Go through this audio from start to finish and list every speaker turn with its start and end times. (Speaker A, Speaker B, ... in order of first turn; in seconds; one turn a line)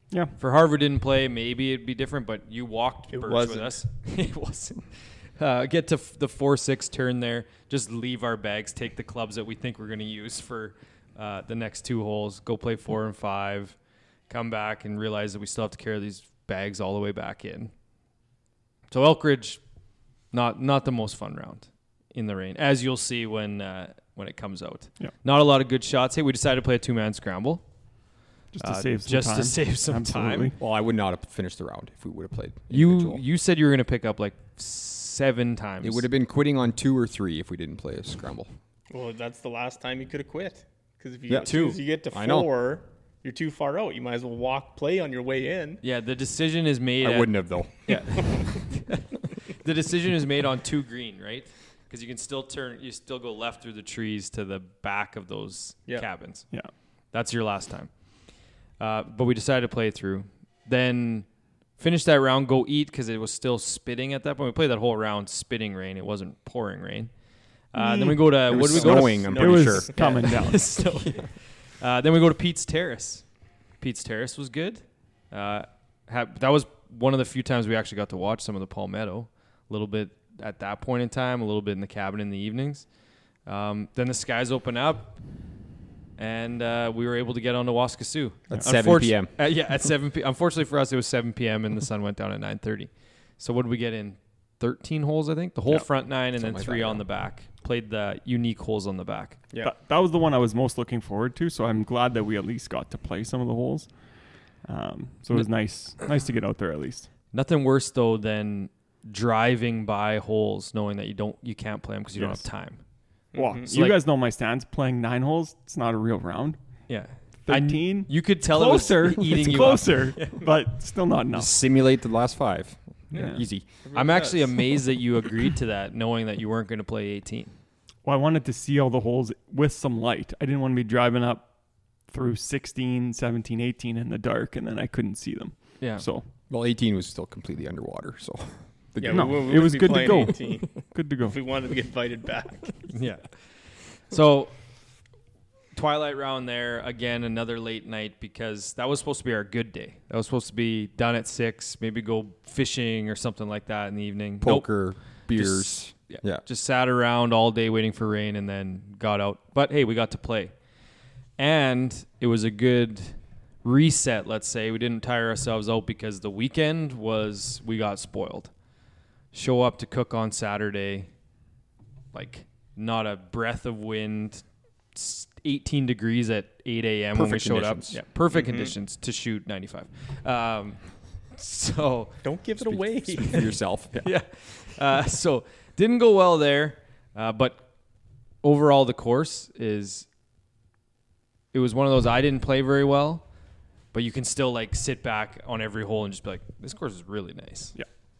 Speaker A: 0.3-13.8
Speaker B: 3.1-3.8
Speaker A: 14.3-17.7
Speaker A: 18.9-19.6
Speaker A: 20.3-27.6
Speaker C: 28.5-30.6
Speaker A: 28.6-30.5
Speaker D: 30.6-33.2
Speaker A: 32.7-36.0
Speaker D: 35.8-38.5
Speaker B: 38.9-45.8
Speaker D: 41.3-42.5
Speaker A: 45.8-56.5
Speaker D: 47.0-48.2
Speaker A: 57.1-57.9
Speaker A: 58.8-61.3
Speaker A: 61.8-67.1
Speaker A: 67.7-73.2
Speaker C: 67.7-70.8
Speaker D: 68.5-70.0
Speaker B: 68.8-70.2
Speaker A: 73.8-82.8
Speaker A: 83.5-85.2
Speaker A: 86.2-99.4
Speaker D: 88.5-89.3
Speaker D: 95.7-97.0
Speaker C: 99.6-103.9
Speaker C: 104.6-107.1
Speaker A: 107.3-112.8
Speaker C: 112.1-112.4
Speaker B: 113.3-113.7
Speaker C: 113.3-116.6
Speaker A: 113.7-114.0
Speaker A: 116.9-120.5
Speaker C: 117.5-121.5
Speaker D: 121.3-123.7
Speaker B: 123.1-124.8
Speaker C: 123.1-123.4
Speaker A: 123.9-127.5
Speaker C: 128.0-131.5
Speaker C: 132.1-136.2
Speaker A: 135.8-136.0
Speaker D: 136.5-139.9
Speaker B: 139.0-142.9
Speaker C: 139.1-141.3
Speaker A: 142.9-143.4
Speaker A: 144.0-144.5
Speaker A: 145.7-154.7
Speaker D: 154.4-156.4
Speaker A: 155.3-160.5
Speaker A: 161.4-168.5
Speaker A: 169.3-171.1
Speaker A: 172.1-182.1
Speaker D: 177.1-178.0
Speaker B: 178.3-178.7
Speaker B: 182.2-183.6
Speaker D: 182.7-184.1
Speaker A: 184.0-187.7
Speaker A: 188.4-190.1
Speaker A: 191.5-193.2
Speaker A: 193.9-197.7